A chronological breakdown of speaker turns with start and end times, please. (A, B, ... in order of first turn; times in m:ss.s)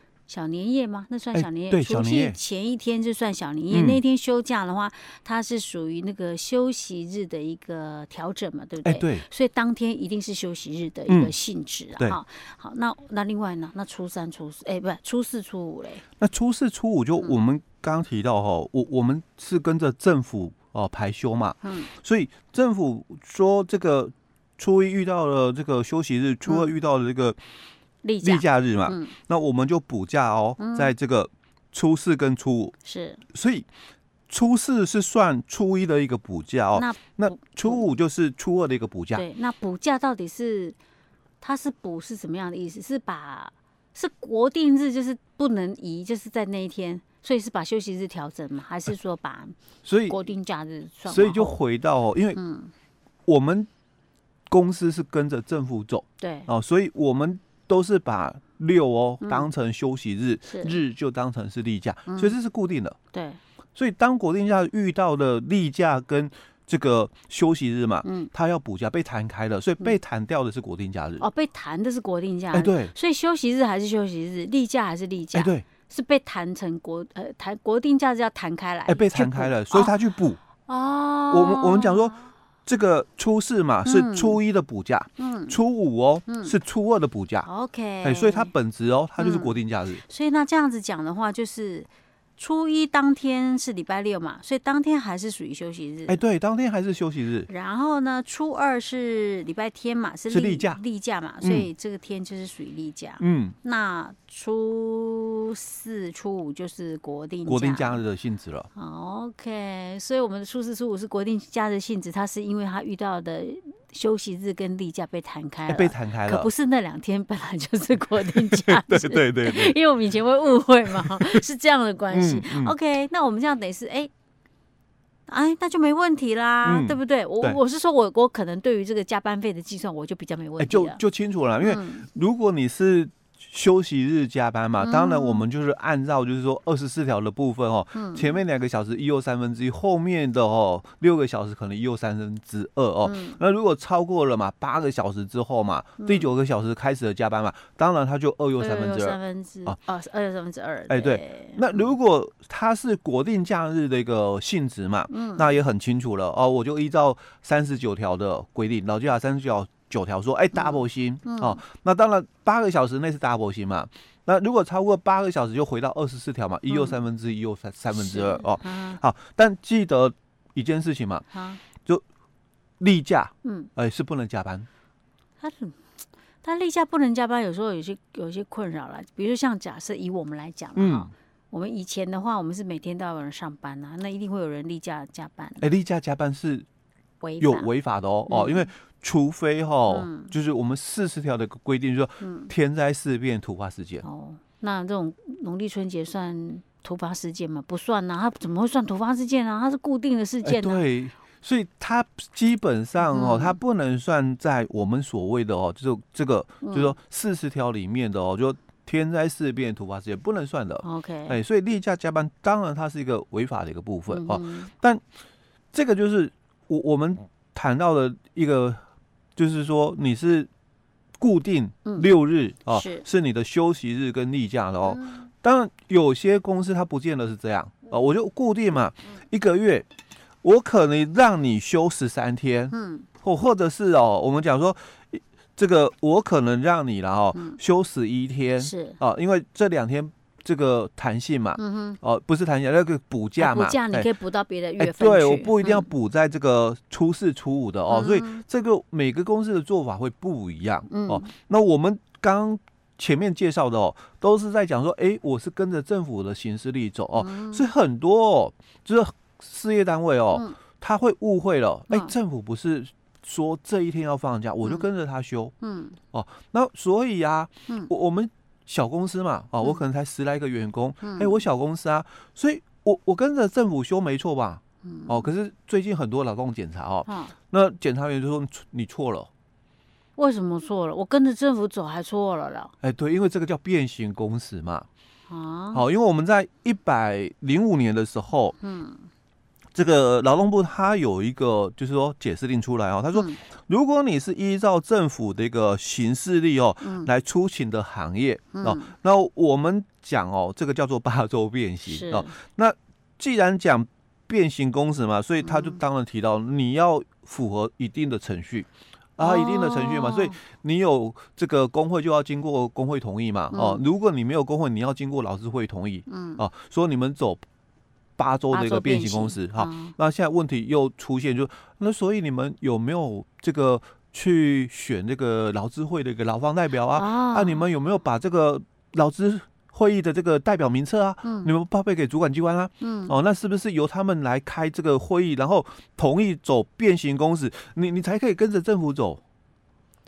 0:00.3-0:16.0 A
0:01.3-0:02.4 B
0:03.7-0:04.0 B
0:08.8-0:09.3 B
0:11.1-0:11.3 B
0:16.2-0:27.4 B
0:21.6-0:21.9 A
0:26.5-0:26.7 A
0:28.0-0:29.1 A
0:28.2-0:32.7 B
0:30.6-0:30.9 A
0:32.8-0:33.2 A
0:33.3-0:33.7 B
0:34.3-0:39.2 B
0:36.7-0:37.8 A
0:39.2-0:40.8 A
0:41.4-0:49.6 A
0:49.8-0:50.2 B
0:50.1-0:51.6 A
0:51.1-0:52.4 B
0:52.4-0:52.7 A
0:53.3-0:53.7 B
0:54.5-1:03.0 B
0:56.2-0:56.5 A
0:59.2-0:59.5 A
1:00.5-1:00.8 A
1:02.1-1:02.3 A
1:03.1-1:03.4 A
1:03.8-1:11.3 B
1:08.0-1:08.3 A
1:11.2-1:20.0 A
1:12.5-1:12.9 B
1:15.3-1:15.6 B
1:18.9-1:20.4 B
1:20.7-1:22.1 A
1:21.3-1:27.5 B
1:23.8-1:24.4 A
1:25.2-1:25.6 A
1:26.3-1:26.6 A
1:27.4-1:28.5 A
1:28.0-1:30.0 B
1:29.2-1:36.2 A
1:36.1-1:37.5 B
1:37.5-1:48.0 A
1:40.3-1:40.8 B
1:41.4-1:41.7 B
1:43.2-1:43.6 B
1:47.5-1:48.7 B
1:48.8-2:04.1 A
1:55.7-1:56.5 B
1:58.2-1:59.8 B
2:00.9-2:01.4 B
2:02.1-2:02.8 B
2:05.3-2:11.0 A
2:06.6-2:07.6 B
2:10.6-2:29.8 B
2:11.6-2:12.1 A
2:14.8-2:15.4 A
2:17.9-2:18.3 A
2:23.0-2:23.4 A
2:26.0-2:26.3 A
2:28.6-2:31.9 A
2:30.9-2:51.3 B
2:35.1-2:35.5 A
2:40.5-2:41.6 A
2:46.7-2:47.0 A
2:47.9-2:49.0 A
2:51.3-2:51.6 A
2:52.8-2:54.7 B
2:53.4-2:53.7 A
2:55.4-2:55.8 A
2:56.4-3:05.6 A
3:00.8-3:01.1 B
3:05.6-3:06.7 B
3:07.2-3:07.7 A
3:07.4-3:14.0 B
3:08.3-3:08.7 A
3:09.9-3:10.3 A
3:12.2-3:12.5 A
3:14.0-3:20.9 A
3:20.4-3:35.0 B
3:23.0-3:23.6 A
3:26.6-3:27.0 A
3:30.8-3:31.4 A
3:34.1-3:34.7 A
3:35.7-3:38.8 B
3:39.4-3:40.5 B
3:41.2-3:49.9 B
3:42.7-3:43.1 A
3:44.9-3:45.2 A
3:50.4-4:04.1 B
3:52.7-3:53.1 A
3:57.3-3:57.6 A
3:58.6-3:59.0 A
4:01.6-4:02.0 A
4:03.4-4:05.9 A
4:04.8-4:25.5 B
4:07.9-4:08.4 A
4:10.9-4:11.3 A
4:17.2-4:17.7 A
4:20.3-4:20.6 A
4:25.6-4:26.0 A
4:26.1-4:39.3 B
4:31.0-4:31.4 A
4:34.8-4:35.3 A
4:37.1-4:37.3 A
4:40.2-4:42.7 A
4:42.8-4:44.9 B
4:45.3-4:45.8 A
4:45.7-4:48.6 B
4:48.6-4:49.1 A
4:49.8-5:17.4 B
4:53.1-4:53.4 A
4:56.8-4:57.1 A
4:58.5-4:58.9 A
5:01.8-5:02.4 A
5:05.4-5:05.8 A
5:09.2-5:10.4 A
5:13.5-5:13.8 A
5:16.1-5:16.4 A
5:18.2-5:39.2 B
5:18.5-5:20.0 A
5:26.9-5:27.6 A
5:31.2-5:31.5 A
5:32.8-5:33.1 A